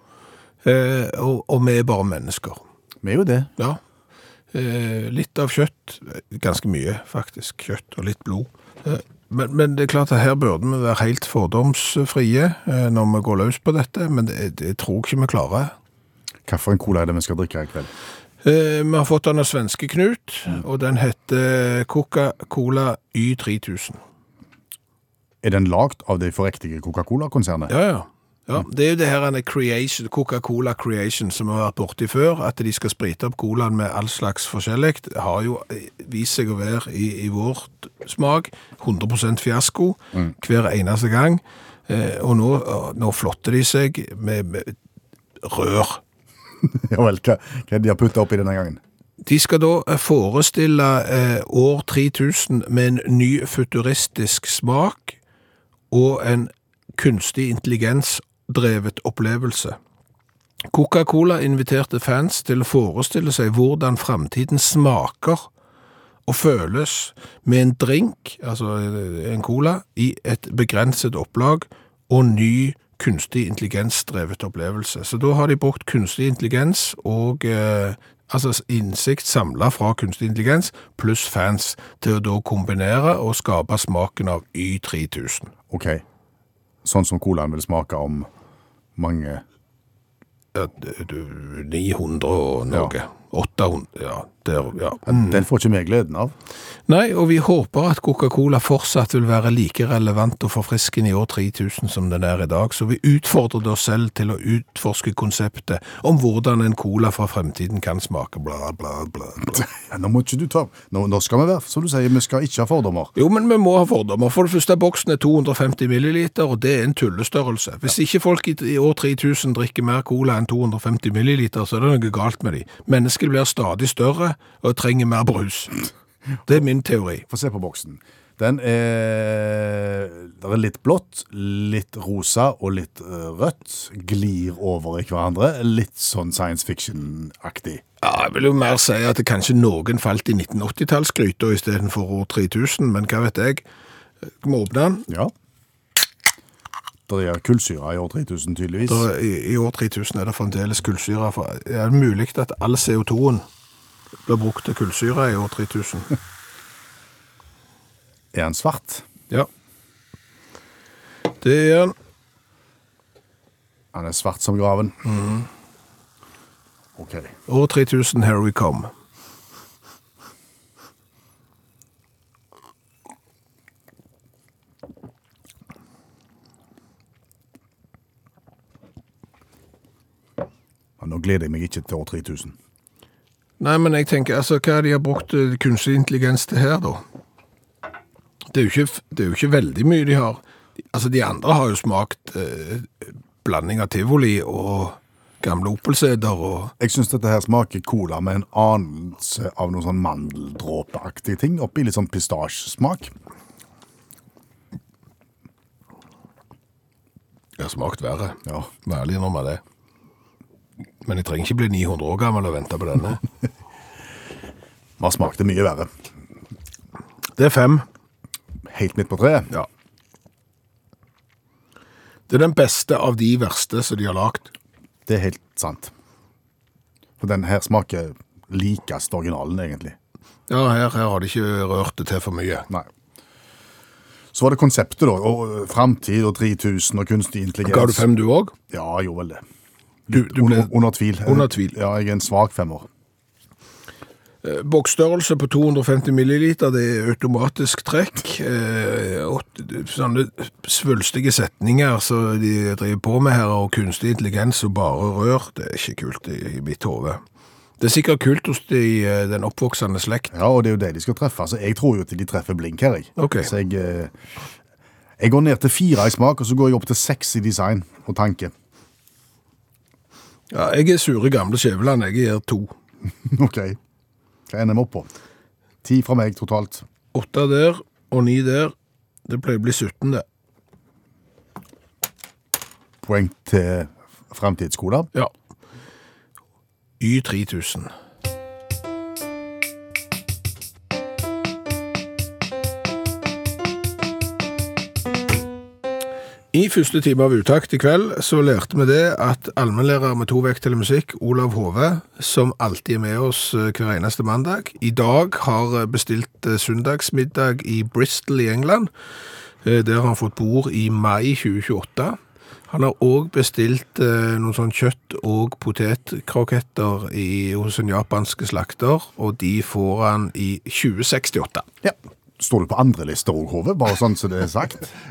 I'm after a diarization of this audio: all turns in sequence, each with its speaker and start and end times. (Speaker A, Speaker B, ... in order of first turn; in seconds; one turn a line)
Speaker A: 0.6-2.6
Speaker B: 3.0-3.5
Speaker A: 4.5-15.7
Speaker B: 16.5-17.9
Speaker A: 18.4-24.0
Speaker B: 25.4-27.7
Speaker A: 27.7-44.7
Speaker A: 45.4-46.0
Speaker B: 46.6-48.8
Speaker A: 49.2-55.2
Speaker A: 55.9-59.8
Speaker A: 60.7-65.5
Speaker A: 66.2-85.5
Speaker B: 85.7-86.0
Speaker B: 86.8-88.3
Speaker B: 89.0-89.4
Speaker A: 90.5-95.4
Speaker B: 95.1-96.3
Speaker A: 96.9-109.7
Speaker B: 109.6-113.1
Speaker A: 113.2-125.8
Speaker A: 126.5-127.2
Speaker B: 127.3-137.8
Speaker A: 138.0-143.6
Speaker A: 144.4-145.1
Speaker B: 147.1-149.1
Speaker A: 148.8-153.4
Speaker A: 154.2-156.1
Speaker B: 158.3-159.1
Speaker A: 161.4-161.9
Speaker B: 163.9-164.9
Speaker A: 165.1-165.4
Speaker B: 167.0-167.3
Speaker A: 167.5-168.9
Speaker B: 181.0-182.6
Speaker A: 183.6-187.0
Speaker A: 188.5-190.4
Speaker A: 190.9-196.7
Speaker B: 196.8-203.1
Speaker A: 207.6-209.6
Speaker B: 208.4-208.7
Speaker A: 211.0-213.2
Speaker B: 215.0-215.9
Speaker A: 217.3-217.8
Speaker B: 218.7-219.5
Speaker A: 222.3-224.5
Speaker B: 225.1-225.9
Speaker B: 227.2-229.9
Speaker A: 230.5-232.7
Speaker B: 234.3-238.0
Speaker A: 237.6-238.5
Speaker B: 238.7-239.4
Speaker B: 240.1-242.9
Speaker A: 240.1-240.7
Speaker A: 241.2-241.8
Speaker A: 244.4-257.2
Speaker A: 257.8-260.3
Speaker B: 260.3-264.1
Speaker A: 263.2-263.5
Speaker B: 265.2-268.5
Speaker A: 270.5-272.7
Speaker B: 273.2-273.8
Speaker B: 274.5-275.1
Speaker B: 275.8-276.8
Speaker A: 277.1-278.7
Speaker A: 279.2-280.2
Speaker B: 283.0-285.1
Speaker A: 287.0-287.9
Speaker A: 296.5-308.9
Speaker A: 309.6-312.2
Speaker A: 312.7-321.6
Speaker B: 321.8-324.9